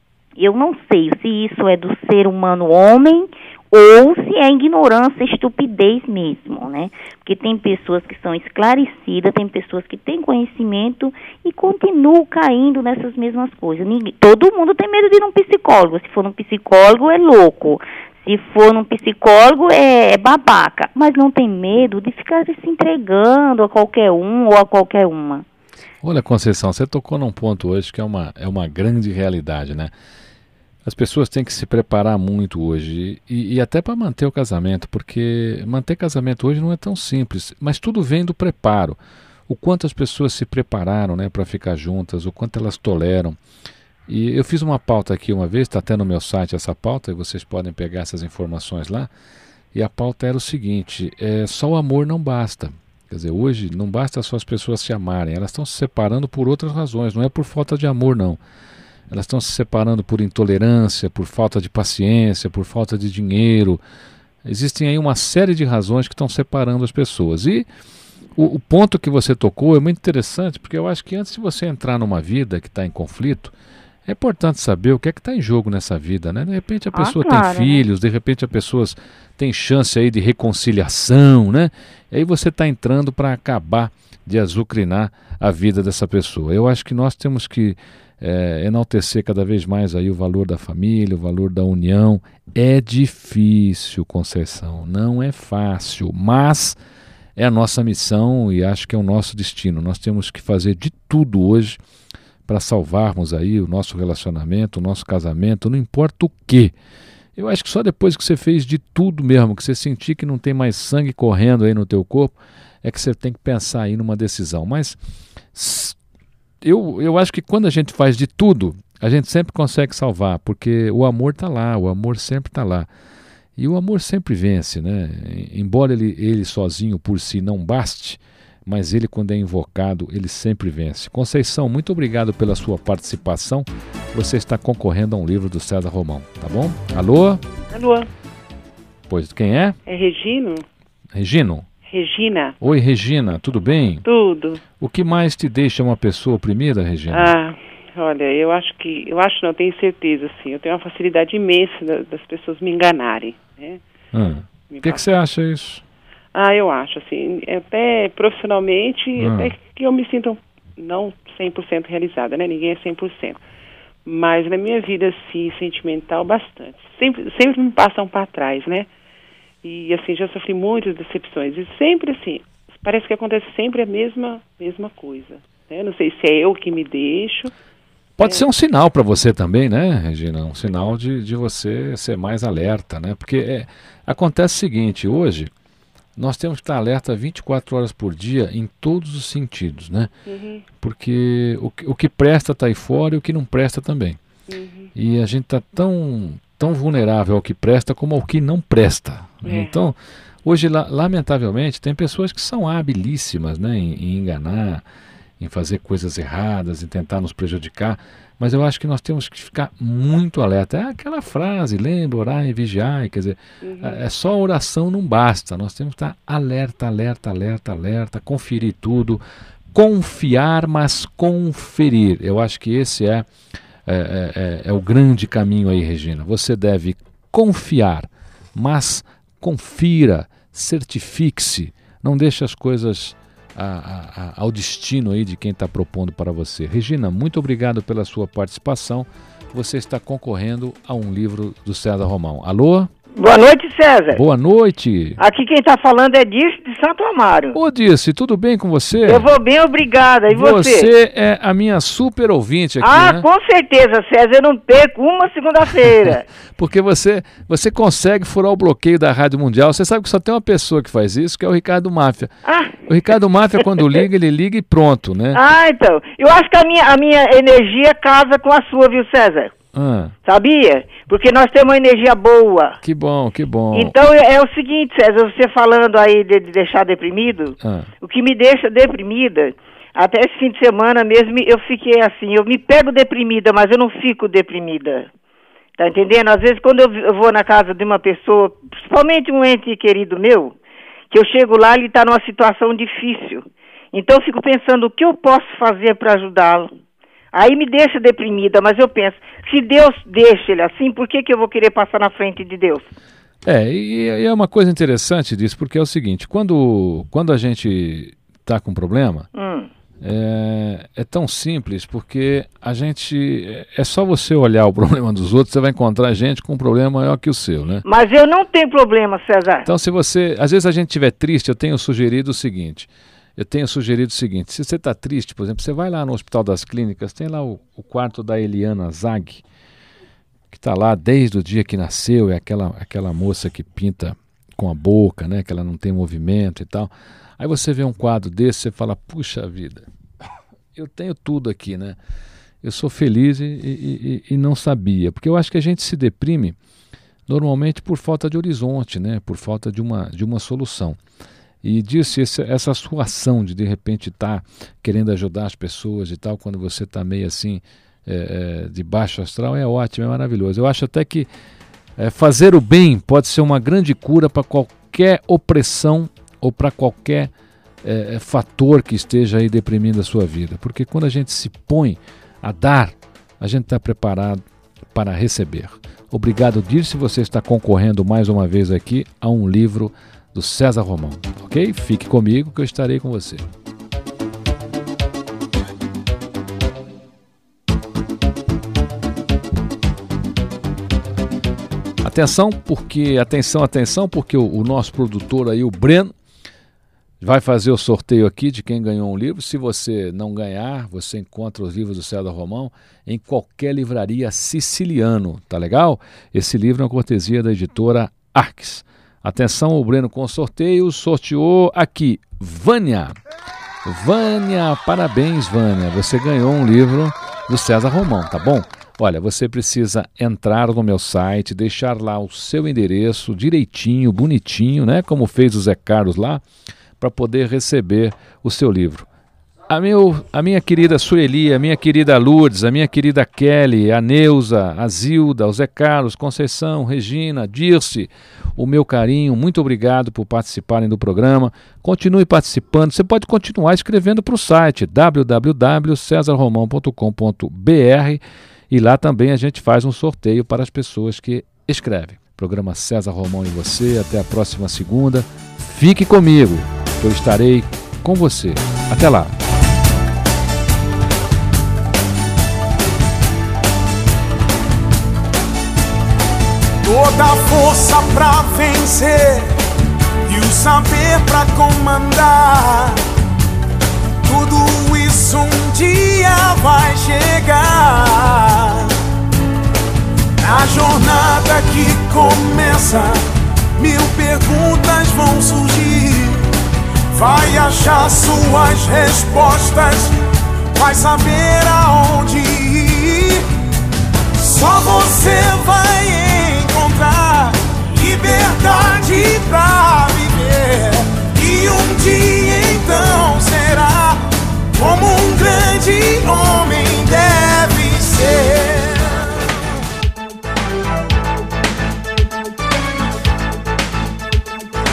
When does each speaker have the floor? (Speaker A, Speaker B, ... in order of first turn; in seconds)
Speaker A: 0.4-25.5, 76.9-77.8
Speaker B: 26.0-29.9, 30.9-43.4, 44.1-49.1, 49.7-58.4, 59.1-63.8, 64.4-67.7, 68.4-73.5, 74.1-96.8, 97.4-101.8, 102.5-106.7, 107.4-115.0, 115.5-116.0, 116.6-122.9, 123.6-137.4, 139.1-139.8, 141.1-141.7, 142.6-144.1, 144.8-147.3, 154.1-155.8, 159.2-159.5, 178.2-185.5, 186.2-190.1, 190.8-194.2, 194.9-204.8, 205.4-219.2, 219.7-223.3, 223.9-242.9, 244.1-245.2, 247.5-249.3, 250.3-253.3, 256.6-262.3, 262.9-265.4, 269.7-270.1, 272.8-273.9, 277.6-277.9, 303.4-309.3, 310.0-317.9, 319.6-329.4, 330.5-339.9, 340.8-342.0, 342.6-346.6, 347.3-351.0, 351.6-361.3, 362.0-367.3, 367.8-383.4, 392.0-396.1, 397.2-413.2, 413.9-426.4, 427.0-429.1, 429.7-459.4
Speaker C: 137.7-138.1, 139.9-140.7, 141.8-142.6, 144.0-144.6, 147.1-153.8, 154.7-155.1, 156.3-163.4, 164.1-168.9, 169.6-177.5, 178.2-178.5, 190.3-190.7, 194.5-194.9, 199.4-199.9, 213.6-214.0
Speaker D: 243.2-244.2, 245.2-247.6, 249.1-250.9, 252.8-256.3, 262.5-262.8, 265.3-269.5, 270.2-272.8, 273.7-285.1, 285.8-290.6, 291.1-296.7, 297.3-302.9, 309.4-309.7, 317.9-319.7
Speaker E: 466.8-469.5, 470.3-473.0, 474.2-478.9, 480.4-483.2, 483.8-486.5, 487.1-490.1, 490.7-493.4, 494.4-509.3